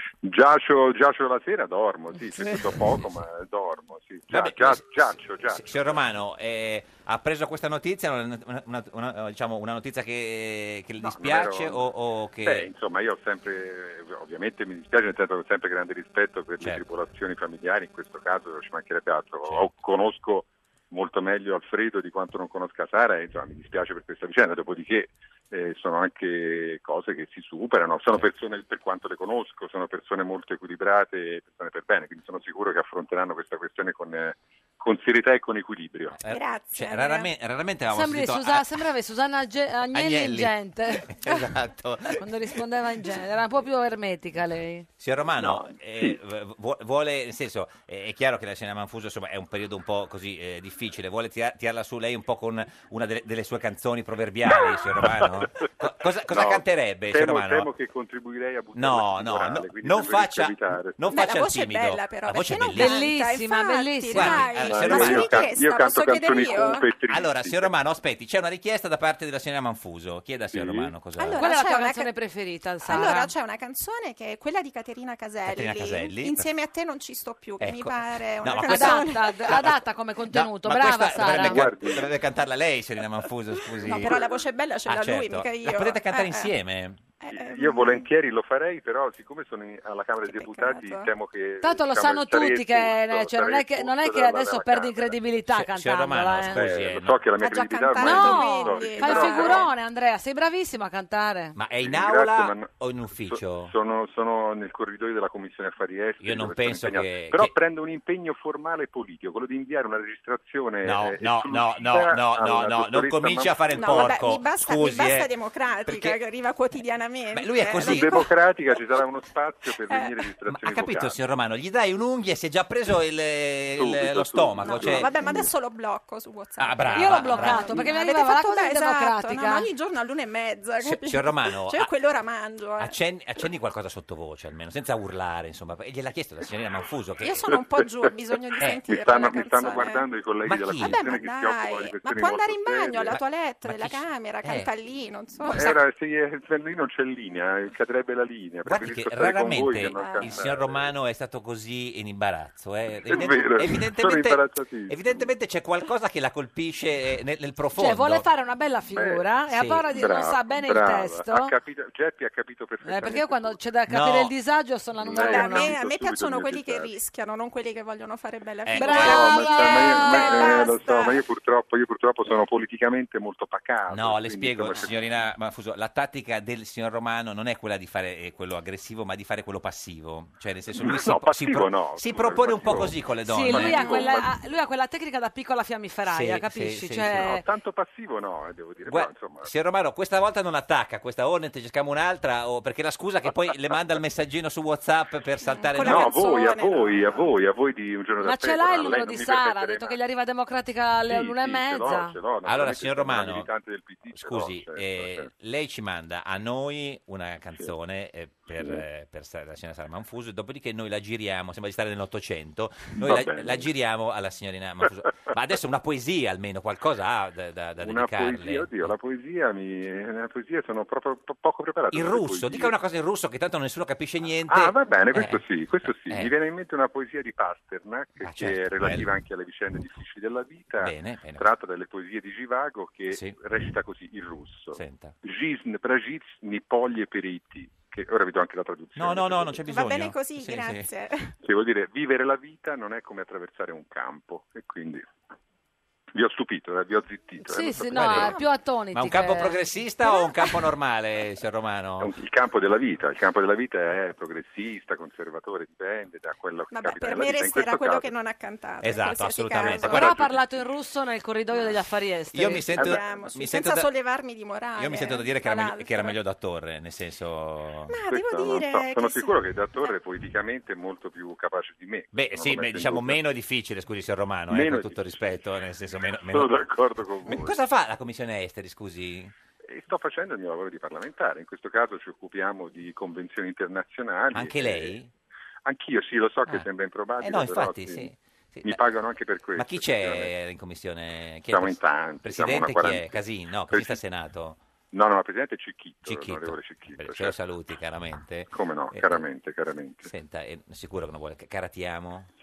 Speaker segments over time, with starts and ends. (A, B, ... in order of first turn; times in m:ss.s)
0:00.2-0:06.0 A
0:04.3-0:12.7 B
0:11.0-0:11.9 A
0:12.4-0:36.2 A
0:19.4-0:19.8 B
0:36.2-0:38.7 B
0:36.2-0:37.3 C
0:37.9-0:41.3 D
0:39.9-0:42.3 B
0:42.2-0:44.9 D
0:45.0-0:57.7 B
0:45.4-0:46.2 A
0:54.5-0:55.6 A
0:56.3-1:01.0 A
0:58.8-1:03.0 B
1:01.1-1:06.9 C
1:02.8-1:04.6 D
1:04.1-1:05.5 B
1:04.6-1:07.7 A
1:07.1-1:11.4 B
1:10.5-1:11.0 A
1:11.2-1:12.1 C
1:11.4-1:13.3 D
1:12.9-1:19.6 C
1:15.5-1:16.5 B
1:17.6-1:19.8 B
1:18.6-1:21.6 D
1:20.3-1:24.2 B
1:21.2-1:22.2 A
1:23.8-1:26.5 C
1:23.8-1:24.5 A
1:24.9-1:27.0 B
1:27.2-1:28.1 C
1:27.3-1:35.2 A
1:30.2-1:31.1 C
1:31.6-1:36.6 D
1:35.5-1:37.2 B
1:36.5-1:39.7 A
1:37.4-1:39.7 C
1:38.0-1:41.6 D
1:41.6-1:43.7 B
1:41.8-1:54.2 A
1:46.2-1:47.5 B
1:50.8-1:55.3 B
1:53.8-1:58.3 C
1:55.9-1:56.2 B
1:57.3-1:58.3 B
1:57.7-2:01.2 A
1:59.9-2:00.2 C
2:00.5-2:05.1 B
2:03.8-2:05.5 A
2:04.6-2:13.0 C
2:06.6-2:07.8 B
2:06.9-2:09.7 D
2:10.8-2:11.9 B
2:12.8-2:17.5 B
2:17.2-2:20.1 C
2:18.9-2:23.2 A
2:20.4-2:21.0 B
2:20.8-2:25.8 C
2:23.1-2:24.7 B
2:25.5-2:30.9 A
2:28.7-2:38.2 B
2:30.0-2:30.4 C
2:33.0-2:35.3 A
2:37.8-2:41.5 D
2:38.9-2:39.3 A
2:39.5-2:39.9 B
2:39.9-2:43.6 A
2:42.8-2:45.7 D
2:43.9-2:44.3 B
2:45.0-2:47.0 A
2:45.1-2:51.2 C
2:48.7-2:49.4 B
2:48.8-2:50.7 D
2:49.0-2:55.1 A
2:53.9-3:04.1 B
3:00.7-3:04.3 A
3:03.3-3:07.4 D
3:06.1-3:07.4 B
3:07.1-3:09.5 A
3:08.9-3:16.2 B
3:15.4-3:17.2 C
3:15.8-3:20.0 A
3:18.2-3:22.2 D
3:21.1-3:25.3 A
3:22.4-3:23.5 B
3:24.1-3:38.9 B
3:28.6-3:28.8 A
3:32.9-3:33.7 A
3:37.8-3:42.8 A
3:41.9-3:46.3 B
3:44.5-3:59.6 A
3:48.2-3:49.1 B
3:50.8-3:51.5 B
3:53.1-3:53.4 B
3:54.7-3:55.2 B
3:59.0-4:00.9 B
3:59.6-4:01.3 C
4:01.4-4:05.1 A
4:06.1-4:08.3 A
4:07.4-4:09.6 D
4:07.9-4:08.3 B
4:08.9-4:12.1 B
4:12.0-4:18.1 A
4:16.7-4:20.1 C
4:18.8-4:20.3 B
4:19.6-4:22.8 D
4:22.3-4:23.9 B
4:22.8-4:23.2 A
4:22.8-4:26.2 C
4:24.8-4:28.0 B
4:27.9-4:30.0 C
4:28.1-4:33.2 A
4:32.1-4:36.6 B
4:34.5-4:35.4 A
4:36.2-4:37.6 A
4:37.3-4:39.3 B
4:39.6-4:45.0 A
4:44.3-4:45.1 B
4:45.6-4:48.1 A
4:47.2-4:48.8 B
4:48.6-4:50.3 A
4:49.6-4:54.6 B
4:51.5-4:54.0 A
4:54.9-4:57.4 A
4:56.0-4:59.2 B
4:58.5-5:00.1 A
5:00.0-5:02.3 B